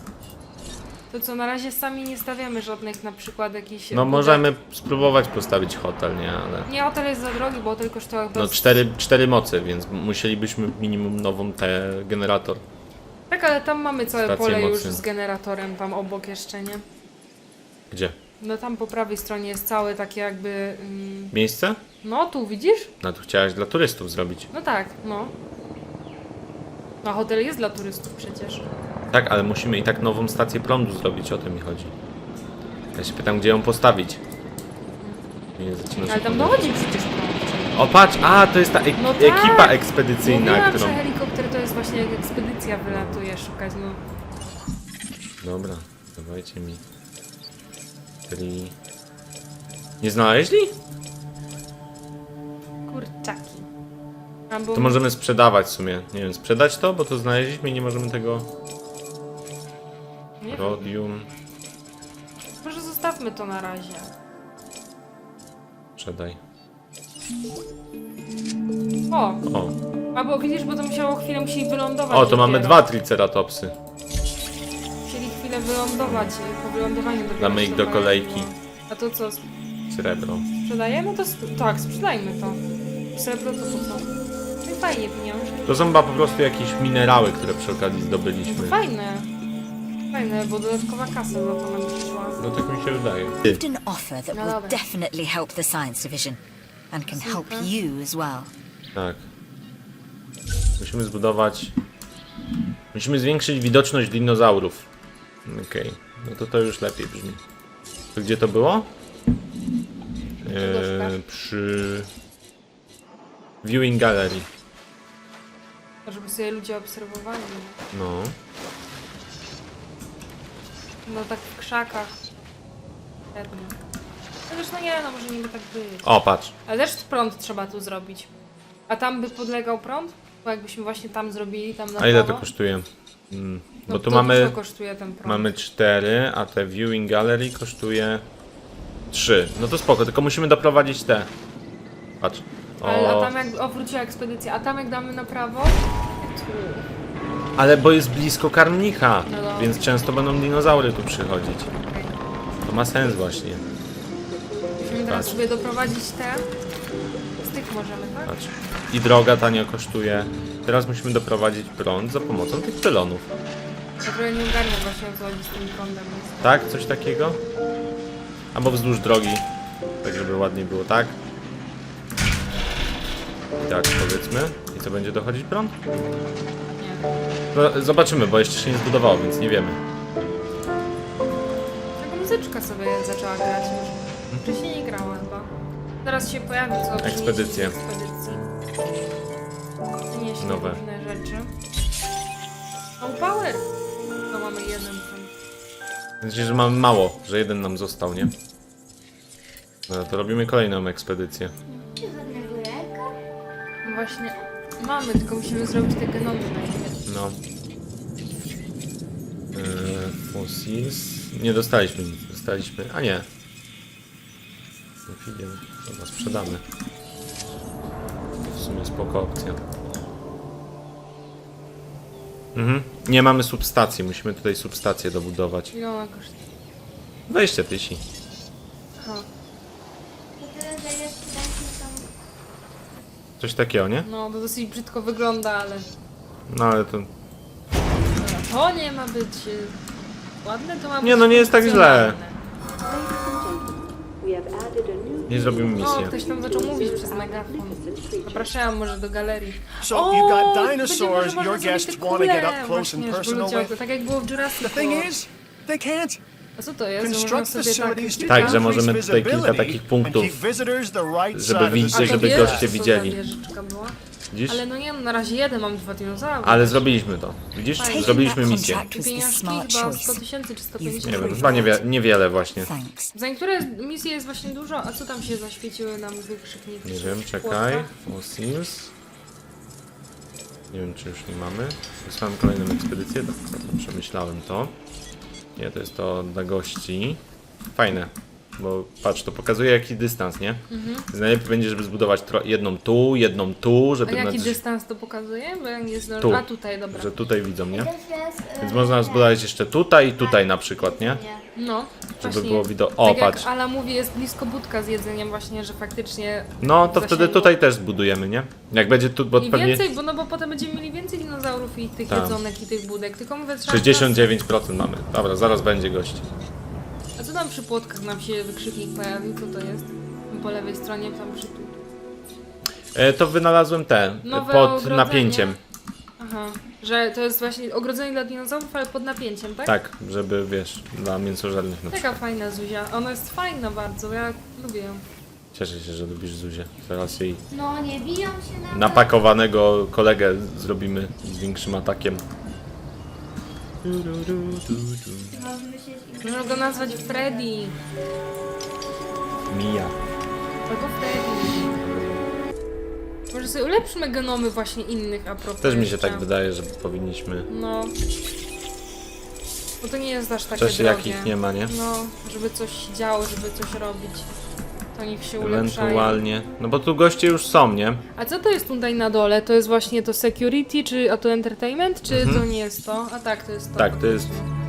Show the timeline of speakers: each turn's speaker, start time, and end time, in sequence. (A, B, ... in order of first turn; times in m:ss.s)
0:01.1-0:04.5 A
0:03.9-0:06.7 B
0:06.7-0:08.6 A
0:08.3-0:12.6 B
0:13.3-0:16.8 A
0:14.2-0:15.0 B
0:17.9-0:18.2 B
0:18.4-0:21.3 A
0:21.3-0:21.8 B
0:22.0-0:22.9 A
0:23.0-0:24.5 B
0:24.5-0:25.3 A
0:27.0-0:28.6 A
0:29.1-0:31.9 B
0:32.9-0:34.2 B
0:35.6-0:36.8 B
0:35.9-0:37.8 A
0:37.7-0:41.0 B
0:39.0-0:44.0 A
0:42.9-0:43.2 B
0:45.4-0:46.8 B
0:48.2-0:48.7 B
0:50.0-0:50.7 B
0:52.9-0:53.7 A
0:54.5-0:55.0 A
0:54.7-0:58.5 B
1:00.4-1:00.9 A
1:00.5-1:01.3 B
1:02.6-1:04.1 A
1:06.0-1:06.4 B
1:09.1-1:09.4 A
1:09.4-1:09.8 B
1:10.1-1:12.8 A
1:12.1-1:13.7 B
1:15.0-1:19.4 A
1:16.0-1:16.4 B
1:17.4-1:18.5 B
1:19.9-1:20.5 B
1:20.6-1:22.6 A
1:23.1-1:24.1 A
1:24.6-1:25.7 A
1:25.6-1:28.8 B
1:28.5-1:29.3 A
1:30.1-1:32.4 A
1:32.4-1:33.6 B
1:33.4-1:36.4 C
1:34.3-1:34.8 A
1:36.9-1:38.5 C
1:37.1-1:37.7 A
1:38.9-1:39.2 B
1:40.8-1:41.7 B
1:42.9-1:44.9 B
1:45.4-1:47.4 B
1:48.1-1:48.9 B
1:50.4-1:52.1 B
1:50.5-1:51.2 A
1:53.6-1:54.5 B
1:56.1-1:57.8 A
1:57.9-1:58.4 B
2:01.1-2:02.1 A
2:03.3-2:03.8 A
2:04.5-2:08.3 A
2:06.0-2:06.5 B
2:08.9-2:12.4 A
2:12.0-2:14.6 B
2:13.9-2:15.5 A
2:15.2-2:18.2 B
2:19.1-2:21.3 B
2:22.2-2:23.3 B
2:22.8-2:26.9 A
2:27.6-2:31.7 B
2:29.3-2:29.8 A
2:31.8-2:32.1 A
2:32.6-2:33.6 B
2:34.8-2:36.4 A
2:34.9-2:35.4 B
2:37.4-2:38.4 A
2:38.2-2:43.3 B
2:44.0-2:46.5 A
2:46.4-2:47.4 B
2:48.5-2:49.4 B
2:50.0-2:51.2 B
2:53.6-2:55.8 B
2:56.8-2:57.0 A
2:57.5-2:59.8 B
3:02.0-3:05.5 A
3:06.0-3:08.5 A
3:07.0-3:07.7 B
3:10.1-3:11.5 A
3:10.4-3:10.8 B
3:13.0-3:13.6 A
3:14.3-3:15.3 A
3:16.2-3:18.3 B
3:19.9-3:21.5 B
3:21.8-3:23.2 D
3:23.8-3:24.4 D
3:23.8-3:27.0 A
3:27.1-3:27.4 B
3:29.5-3:33.3 B
3:35.1-3:36.6 B
3:38.4-3:39.6 B
3:42.6-3:45.7 B
3:45.7-3:46.4 A
3:47.3-3:48.0 B
3:49.0-3:49.2 A
3:50.4-3:52.1 D
3:53.4-3:54.1 B
3:54.0-3:55.9 A
3:56.5-3:57.1 B
3:58.2-3:59.8 A
4:00.4-4:02.4 A
4:01.0-4:02.2 B
4:05.2-4:06.2 B
4:05.8-4:15.1 A
4:09.8-4:13.8 E
4:14.6-4:16.2 E
4:16.6-4:18.6 A
4:17.0-4:22.7 E
4:18.2-4:20.4 B
4:21.3-4:23.2 B
4:21.9-4:24.0 A
4:24.3-4:24.6 B
4:24.5-4:26.9 A
4:26.4-4:28.8 B
4:27.8-4:31.7 A
4:27.8-4:30.2 C
4:30.8-4:31.9 C
4:31.0-4:32.7 B
4:32.6-4:33.1 C
4:33.1-4:37.9 A
4:36.8-4:38.9 B
4:40.7-4:44.7 B
4:45.6-4:47.2 B
4:47.7-4:54.6 B
4:50.7-4:51.1 A
4:54.1-4:57.1 A
4:56.2-4:57.9 B
4:57.7-4:59.4 D
4:58.6-5:01.2 B
5:00.2-5:01.4 D
5:01.6-5:07.6 A
5:02.2-5:03.5 B
5:06.6-5:09.8 B
5:09.4-5:14.3 A
5:12.1-5:12.4 B
5:13.6-5:16.3 B
5:17.2-5:21.8 A
5:22.9-5:25.6 B
5:24.2-5:25.6 A
5:26.2-5:29.7 A
5:29.6-5:32.1 B
5:31.9-5:35.0 A
5:35.5-5:37.4 B
5:37.5-5:39.1 D
5:38.7-5:42.2 B
5:43.8-5:45.4 B
5:45.3-5:47.5 D
5:46.2-5:47.7 A
5:49.5-5:49.9 B
5:50.7-5:51.8 A
5:51.8-5:52.3 B
5:53.3-5:56.2 A
5:55.6-5:57.5 B
5:57.5-5:57.9 A
5:59.8-6:04.3 A
6:00.5-6:01.7 B
6:04.9-6:06.2 A
6:05.4-6:08.0 B
6:08.2-6:14.5 A
6:12.1-6:12.4 B
6:13.8-6:14.4 B